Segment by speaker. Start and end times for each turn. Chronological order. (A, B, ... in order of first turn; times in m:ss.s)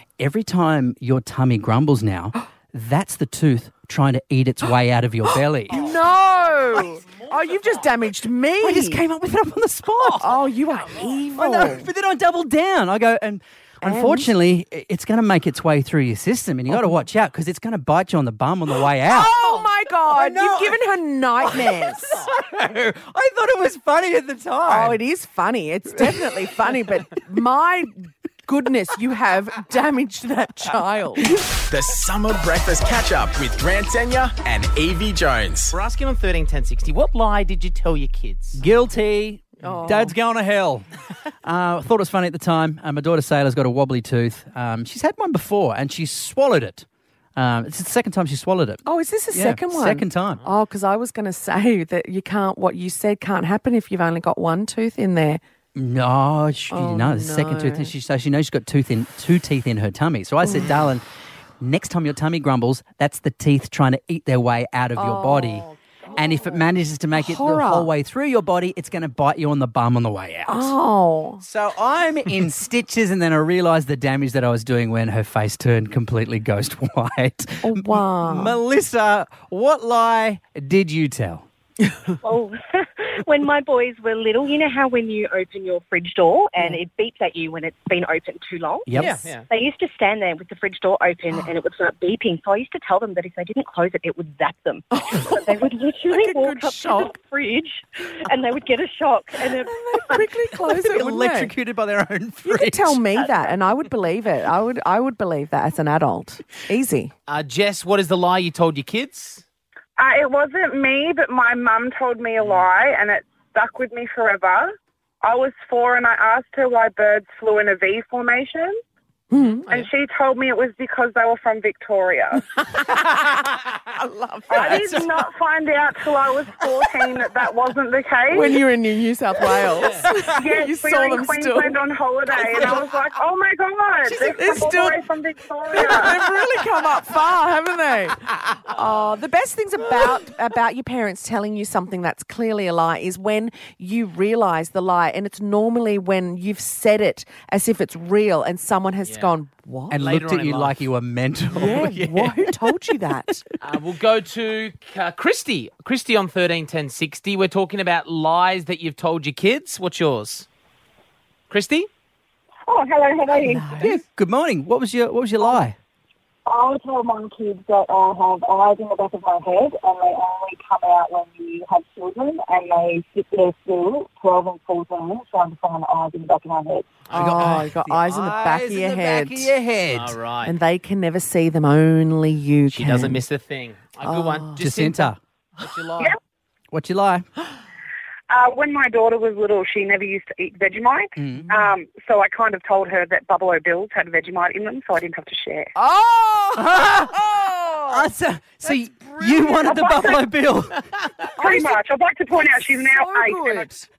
0:00.2-0:05.9 A
0:05.7-0:09.0 B
0:08.6-0:10.4 A
0:10.0-0:11.9 B
0:11.2-0:20.8 A
0:13.8-0:14.4 B
0:19.0-0:22.2 B
0:21.4-0:25.0 A
0:24.6-0:31.3 B
0:31.7-0:35.7 C
0:35.7-0:38.6 D
0:38.6-0:40.9 A
0:39.6-0:40.1 B
0:41.4-0:50.4 A
0:48.8-0:55.4 B
0:55.8-1:01.0 A
0:56.7-0:57.9 B
1:01.6-1:10.7 A
1:04.9-1:07.9 B
1:10.4-1:11.4 B
1:11.4-1:21.4 A
1:17.6-1:18.6 B
1:22.2-1:40.3 E
1:28.8-1:29.2 A
1:28.9-1:29.5 D
1:35.0-1:37.1 B
1:39.6-1:41.5 B
1:40.6-1:43.1 A
1:42.4-1:47.1 B
1:43.1-1:43.6 E
1:47.3-1:49.4 D
1:50.0-1:58.8 F
1:52.4-1:52.6 D
1:59.3-1:59.8 B
1:59.7-2:02.4 F
2:02.7-2:03.4 B
2:03.9-2:05.2 B
2:04.5-2:08.4 F
2:06.6-2:07.1 B
2:08.3-2:11.8 B
2:10.4-2:16.2 F
2:12.4-2:12.9 B
2:14.0-2:15.1 B
2:15.6-2:30.0 B
2:29.0-2:29.3 D
2:29.9-2:32.5 A
2:29.9-2:30.9 D
2:31.5-2:33.4 B
2:33.6-2:40.4 D
2:41.5-2:41.9 D
2:42.6-2:43.6 F
2:43.5-2:45.8 A
2:46.4-2:56.9 F
2:57.1-2:57.6 D
2:57.1-2:59.5 B
2:57.1-3:00.2 A
2:59.9-3:00.5 D
3:00.4-3:03.2 B
3:02.7-3:06.2 D
3:04.0-3:04.6 B
3:04.6-3:05.2 A
3:06.7-3:07.2 A
3:08.3-3:15.7 F
3:11.2-3:11.6 A
3:15.8-3:18.1 B
3:16.6-3:17.1 A
3:17.9-3:20.8 A
3:18.6-3:19.7 B
3:19.6-3:20.2 F
3:21.4-3:21.8 B
3:21.4-3:23.7 F
3:22.7-3:23.8 B